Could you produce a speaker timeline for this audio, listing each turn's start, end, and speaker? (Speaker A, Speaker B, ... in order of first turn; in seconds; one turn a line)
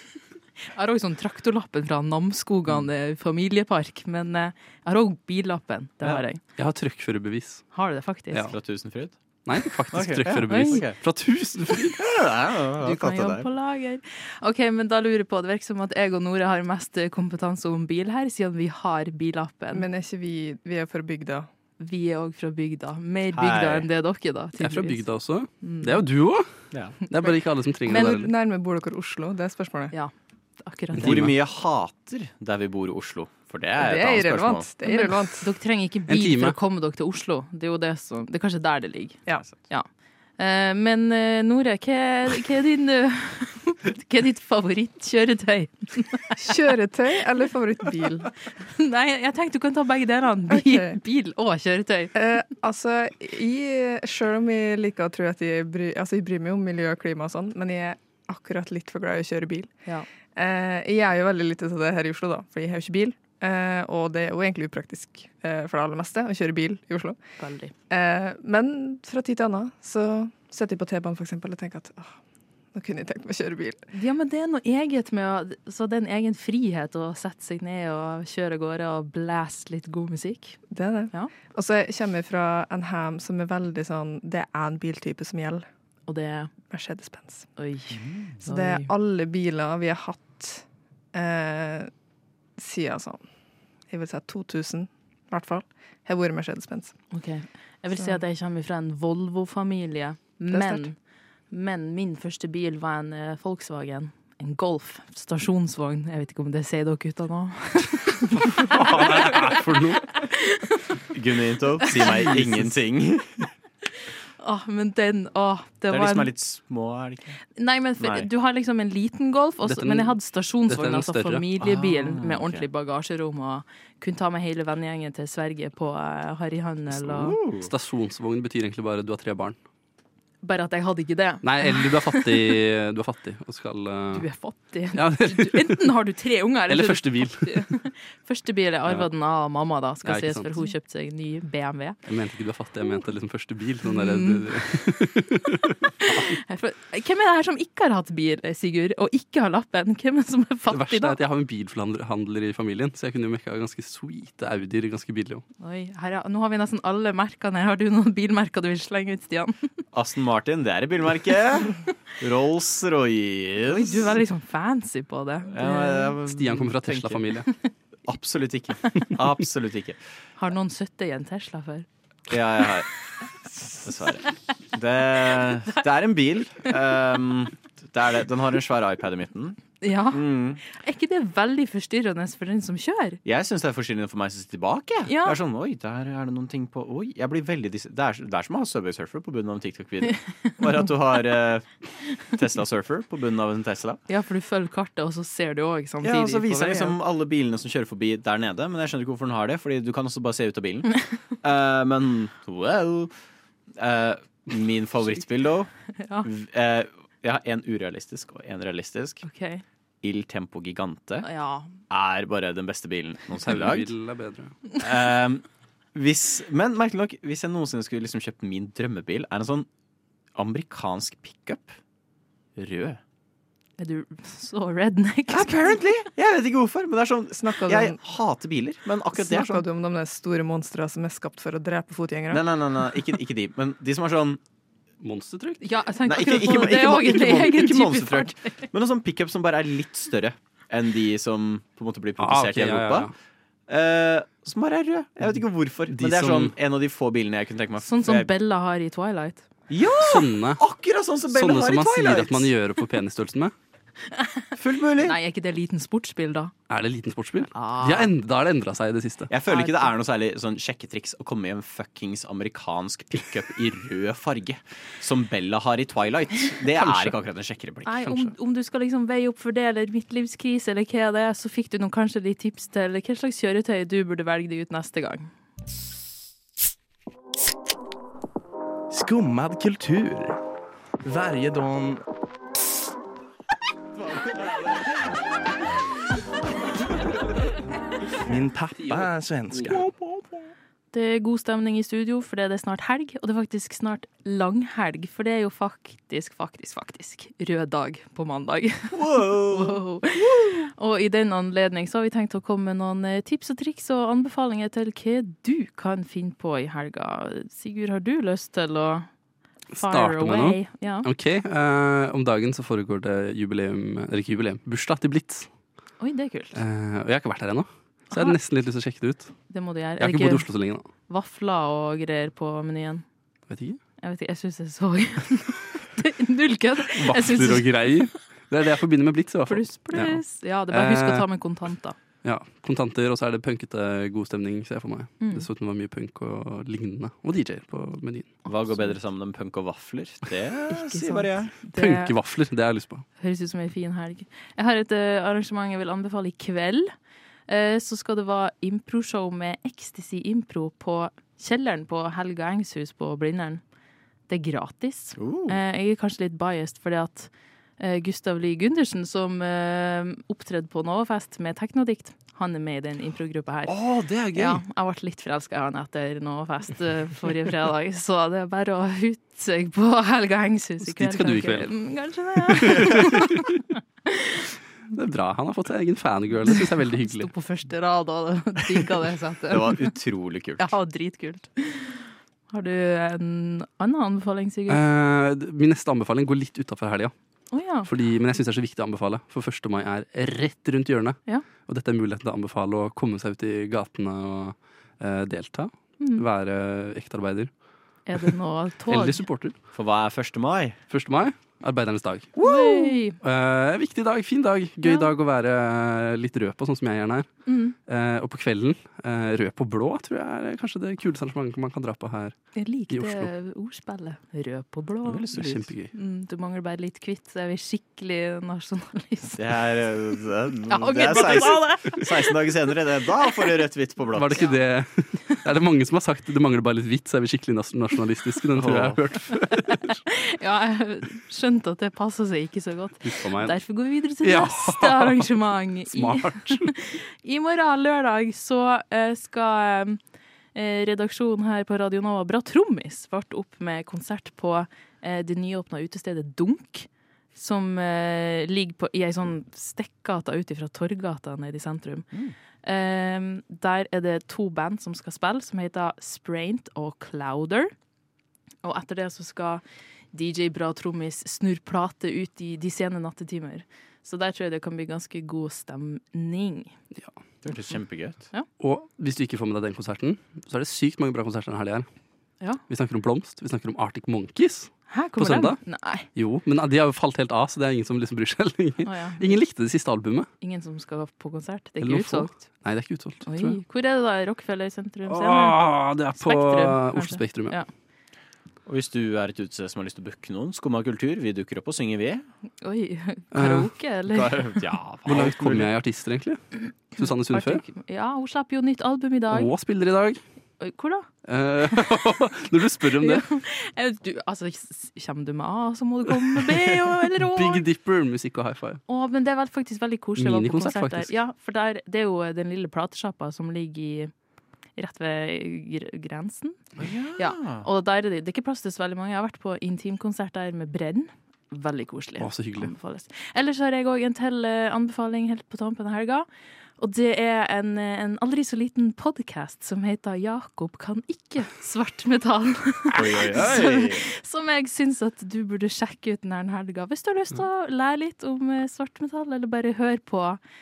Speaker A: 0.8-6.4
Speaker B: 6.6-7.8
Speaker A: 7.7-8.5
Speaker B: 8.3-8.6
Speaker C: 8.5-9.2
Speaker B: 9.4-12.0
Speaker C: 9.9-11.0
Speaker A: 10.5-10.8
Speaker C: 11.9-13.5
Speaker A: 12.8-19.9
Speaker D: 19.7-21.5
Speaker A: 21.8-25.1
Speaker C: 23.3-23.9
Speaker B: 24.6-28.3
Speaker A: 25.6-26.0
Speaker D: 27.9-29.9
Speaker A: 29.9-31.2
Speaker C: 31.0-34.7
Speaker B: 31.0-31.3
Speaker D: 33.8-35.5
Speaker A: 34.8-46.4
Speaker B: 36.1-36.6
Speaker D: 46.4-48.3
Speaker A: 48.6-52.1
Speaker D: 50.5-51.0
Speaker D: 52.1-59.7
Speaker D: 60.4-67.2
Speaker A: 67.4-67.7
Speaker D: 67.9-72.2
Speaker D: 72.7-73.8
Speaker A: 73.9-81.3
Speaker D: 80.7-85.7
Speaker A: 86.1-86.6
Speaker D: 86.7-87.6
Speaker A: 87.6-88.9
Speaker C: 88.0-88.4
Speaker D: 88.4-91.9
Speaker D: 92.6-97.2
Speaker A: 97.1-109.6
Speaker D: 100.5-100.9
Speaker B: 108.6-110.2
Speaker A: 110.2-110.6
Speaker C: 111.1-113.3
Speaker B: 112.3-112.7
Speaker A: 114.4-116.3
Speaker C: 115.9-117.4
Speaker A: 117.5-127.4
Speaker C: 118.0-118.3
Speaker B: 119.6-121.5
Speaker C: 121.6-122.7
Speaker C: 127.0-127.7
Speaker B: 127.6-129.6
Speaker A: 130.4-132.6
Speaker B: 131.4-134.3
Speaker A: 134.1-142.0
Speaker B: 134.9-135.9
Speaker B: 136.7-137.7
Speaker B: 140.0-140.7
Speaker B: 142.1-146.2
Speaker A: 143.8-145.1
Speaker A: 146.0-151.2
Speaker B: 150.7-155.4
Speaker A: 155.6-159.6
Speaker C: 159.9-164.2
Speaker A: 163.7-166.2
Speaker C: 165.5-167.4
Speaker B: 166.3-167.5
Speaker C: 168.1-170.0
Speaker A: 170.4-171.9
Speaker C: 172.3-172.9
Speaker C: 173.8-180.6
Speaker A: 179.8-183.2
Speaker C: 183.2-194.0
Speaker A: 185.1-185.4
Speaker A: 194.1-196.9
Speaker C: 196.0-203.1
Speaker C: 203.8-205.7
Speaker A: 206.0-206.3
Speaker C: 206.2-209.3
Speaker A: 209.2-209.6
Speaker C: 210.0-211.3
Speaker A: 211.2-211.7
Speaker C: 211.9-213.9
Speaker B: 213.4-214.6
Speaker C: 214.7-219.7
Speaker C: 220.4-221.8
Speaker C: 222.6-223.0
Speaker A: 223.8-225.8
Speaker C: 225.3-229.7
Speaker D: 227.4-228.0
Speaker D: 229.1-232.4
Speaker C: 232.3-234.4
Speaker B: 235.0-235.6
Speaker A: 235.6-238.7
Speaker C: 236.1-243.1
Speaker B: 242.2-243.1
Speaker C: 243.7-248.3
Speaker B: 245.9-246.5
Speaker A: 247.8-249.4
Speaker C: 249.7-252.5
Speaker B: 250.0-250.6
Speaker B: 251.3-253.5
Speaker A: 254.1-254.4
Speaker C: 254.6-255.2
Speaker A: 255.0-256.5
Speaker B: 256.7-259.3
Speaker A: 257.5-258.1
Speaker C: 259.3-268.3
Speaker A: 259.5-259.9
Speaker B: 266.8-267.2
Speaker A: 267.9-275.3
Speaker E: 278.9-280.4
Speaker E: 281.0-282.0
Speaker E: 288.2-290.0
Speaker A: 290.9-309.1
Speaker C: 298.9-300.6
Speaker B: 309.7-315.5
Speaker A: 309.8-311.1
Speaker A: 316.0-316.6
Speaker B: 316.6-319.4
Speaker A: 318.1-318.4
Speaker A: 319.5-320.5
Speaker B: 320.0-320.9
Speaker A: 321.1-323.1
Speaker B: 323.5-323.8
Speaker A: 324.0-327.9
Speaker B: 327.0-331.3
Speaker A: 329.5-332.0
Speaker B: 332.2-338.4
Speaker A: 335.2-335.5
Speaker C: 338.4-341.5
Speaker A: 340.7-342.1
Speaker B: 341.8-343.1
Speaker A: 343.2-346.9
Speaker A: 347.5-353.6
Speaker A: 354.3-363.8
Speaker C: 355.2-355.6
Speaker C: 363.7-364.6
Speaker A: 364.3-374.4
Speaker B: 370.8-371.8
Speaker B: 372.5-373.4
Speaker B: 374.9-377.3
Speaker A: 376.5-379.9
Speaker C: 379.5-380.7
Speaker A: 380.6-384.8
Speaker B: 384.7-387.1
Speaker A: 387.5-387.9
Speaker B: 387.8-397.5
Speaker A: 396.0-396.2
Speaker A: 398.1-399.3
Speaker B: 398.9-399.6
Speaker C: 399.7-400.8
Speaker B: 400.9-407.3
Speaker A: 402.4-403.2
Speaker A: 404.8-405.1
Speaker A: 407.5-407.8
Speaker B: 407.9-413.3
Speaker A: 412.6-415.3
Speaker C: 415.1-415.7
Speaker B: 415.3-415.9
Speaker A: 415.9-419.4
Speaker C: 419.4-424.4
Speaker A: 420.7-422.4
Speaker B: 424.1-429.9
Speaker A: 424.3-424.6
Speaker C: 428.6-429.0
Speaker A: 429.9-440.0
Speaker B: 433.0-433.7
Speaker B: 434.2-436.7
Speaker A: 440.5-452.1
Speaker A: 452.6-457.7
Speaker A: 458.6-466.8
Speaker C: 467.4-468.3
Speaker B: 468.6-471.9
Speaker B: 472.7-480.3
Speaker A: 474.9-476.1
Speaker A: 478.8-479.4
Speaker A: 480.4-482.3
Speaker B: 481.8-483.6
Speaker A: 483.3-487.7
Speaker B: 485.1-487.6
Speaker C: 488.7-492.2
Speaker A: 492.6-494.5
Speaker B: 493.3-493.7
Speaker C: 494.1-495.7
Speaker B: 495.1-497.6
Speaker A: 497.0-499.5
Speaker B: 499.3-500.2
Speaker A: 500.6-501.1
Speaker B: 501.3-503.3
Speaker A: 503.0-507.6
Speaker B: 506.4-508.8
Speaker A: 508.9-514.1
Speaker B: 510.2-511.1
Speaker A: 514.8-516.6
Speaker C: 516.8-517.7
Speaker A: 517.2-526.3
Speaker B: 522.2-522.7
Speaker A: 526.8-540.4
Speaker C: 532.9-534.0